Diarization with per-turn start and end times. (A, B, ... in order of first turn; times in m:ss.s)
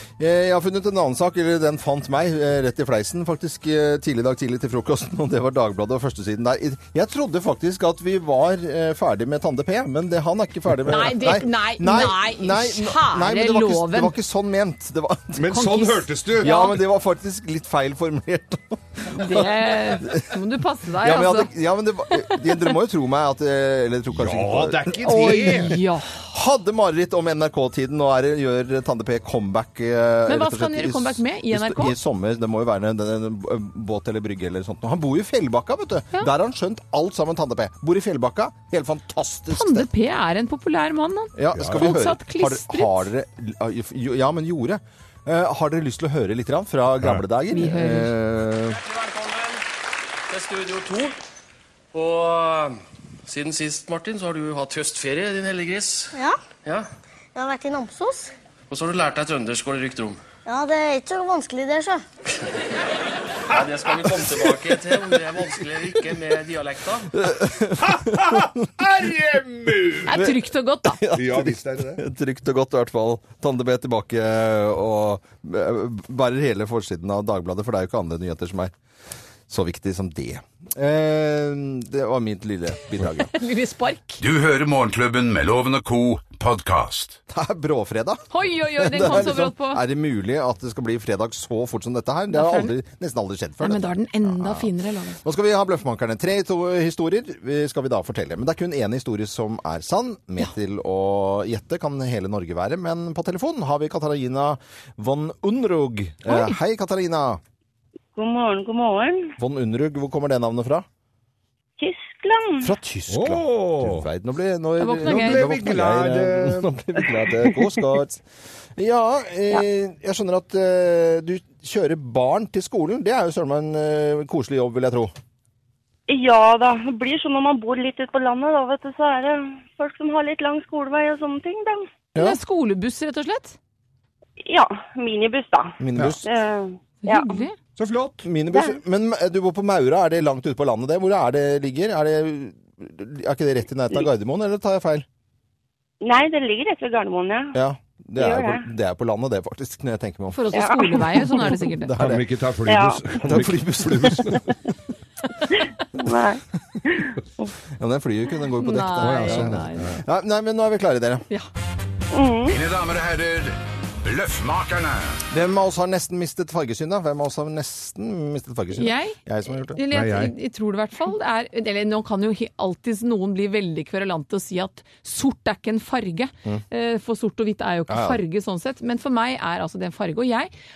0:00.2-0:15.6 A
0:10.8-0:14.1 B
0:15.4-0:16.8 C
0:15.5-0:16.1 B
0:16.4-0:20.3 A
0:19.0-0:21.5 B
0:21.0-0:39.9 A
0:22.1-0:22.6 B
0:24.1-0:25.8 C
0:25.0-0:26.2 B
0:30.3-0:32.0 B
0:39.5-0:43.1 B
0:41.3-0:48.8 A
0:41.5-0:41.8 C
0:47.5-0:48.1 B
0:48.8-0:49.6 D
0:50.3-0:51.2 D
0:51.9-0:56.1 D
0:56.1-0:56.4 E
0:57.3-0:58.3 E
0:58.7-1:00.2 D
1:00.4-1:02.0 E
1:03.5-1:07.1 D
1:07.2-1:08.4 A
1:07.8-1:10.1 C
1:10.0-1:11.0 B
1:10.1-1:18.7 A
1:11.1-1:12.0 C
1:19.5-1:23.3 A
1:23.3-1:24.2 B
1:24.2-1:27.2 F
1:27.3-1:34.7 A
1:28.3-1:29.8 B
1:32.3-1:32.7 B
1:33.6-1:35.2 B
1:35.2-1:47.4 A
1:46.2-1:46.6 B
1:48.1-1:49.3 G
1:49.4-1:50.8 A
1:51.8-1:52.7 G
1:52.6-1:58.2 A
1:53.1-1:54.0 C
1:54.8-1:55.4 B
1:55.0-1:56.7 C
1:58.8-2:05.1 A
2:06.1-2:11.9 G
2:12.2-2:13.6 B
2:14.4-2:17.4 G
2:15.8-2:16.2 A
2:17.0-2:17.6 B
2:17.8-2:18.2 C
2:18.2-2:25.0 A
2:18.5-2:18.8 G
2:26.0-2:27.6 G
2:27.5-2:30.6 A
2:28.2-2:28.6 G
2:30.3-2:31.9 B
2:30.5-2:31.0 G
2:31.8-2:32.2 A
2:31.9-2:34.4 C
2:32.6-2:33.0 G
2:33.2-2:34.5 A
2:35.5-2:37.5 G
2:37.7-2:41.2 A
2:38.6-2:39.9 B
2:39.0-2:40.0 C
2:42.1-2:42.6 G
2:42.4-2:45.2 F
2:45.3-2:49.8 A
2:48.7-2:49.2 B
2:49.7-3:00.5 B
2:49.9-2:50.3 C
2:57.9-2:58.2 A